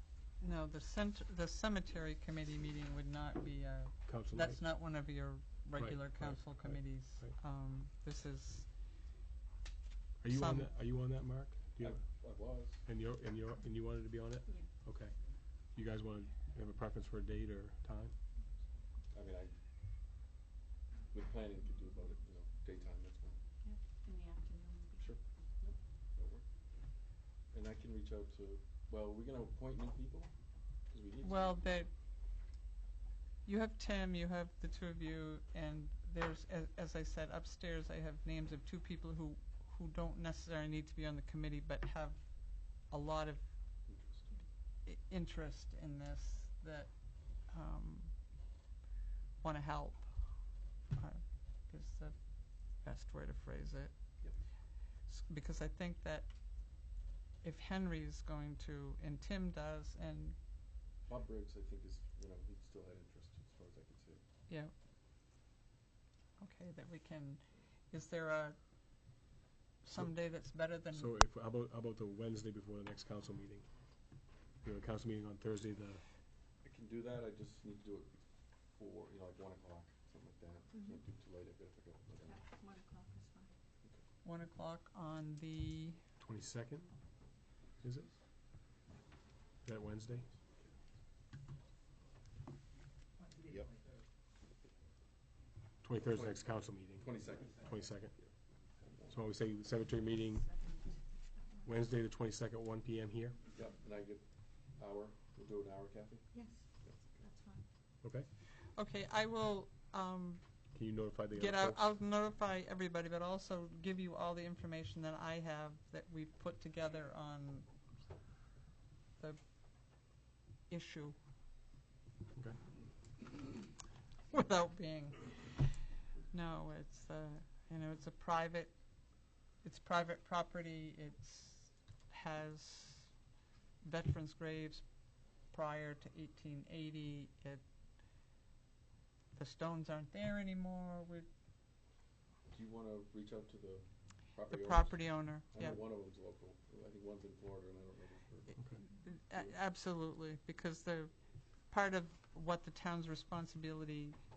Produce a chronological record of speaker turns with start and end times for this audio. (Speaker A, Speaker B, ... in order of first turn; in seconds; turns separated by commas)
Speaker A: 0.4-8.7, Speaker B: 4.1-4.6, Speaker B: 5.8-7.4, Speaker B: 10.2-12.0, Speaker A: 10.3-10.7, Speaker C: 11.8-12.8, Speaker B: 12.8-15.1, Speaker B: 15.8-18.1, Speaker C: 19.1-19.6, Speaker C: 21.1-23.4, Speaker D: 23.6-25.1, Speaker C: 25.0-26.5, Speaker C: 27.5-30.3, Speaker C: 30.9-31.8, Speaker A: 31.2-31.9, Speaker A: 33.5-43.4, Speaker C: 43.9-44.4, Speaker A: 44.9-48.1, Speaker A: 49.4-50.1, Speaker A: 51.0-52.1, Speaker A: 52.8-53.9, Speaker A: 55.1-56.3, Speaker A: 57.4-60.4, Speaker C: 61.0-64.2, Speaker A: 66.4-68.6, Speaker A: 69.8-71.1, Speaker B: 70.9-73.7, Speaker B: 74.6-76.0, Speaker C: 76.6-82.4, Speaker D: 82.2-83.5, Speaker A: 84.2-86.0, Speaker B: 86.2-86.9, Speaker B: 87.8-88.1, Speaker B: 89.6-90.3, Speaker C: 93.4-93.7, Speaker B: 95.8-98.1, Speaker C: 96.0-99.2, Speaker B: 99.1-100.5, Speaker D: 100.4-101.7, Speaker B: 101.6-103.4, Speaker C: 103.5-106.3, Speaker D: 106.3-107.7, Speaker C: 106.8-107.2, Speaker A: 108.8-110.4, Speaker B: 110.7-111.8, Speaker A: 111.3-117.7, Speaker A: 120.7-121.2, Speaker A: 124.3-125.8, Speaker A: 126.3-128.8, Speaker A: 129.6-133.1, Speaker A: 133.8-137.6, Speaker A: 139.3-141.3, Speaker C: 142.5-148.6, Speaker A: 144.5-145.8, Speaker A: 148.7-151.1, Speaker A: 151.7-154.2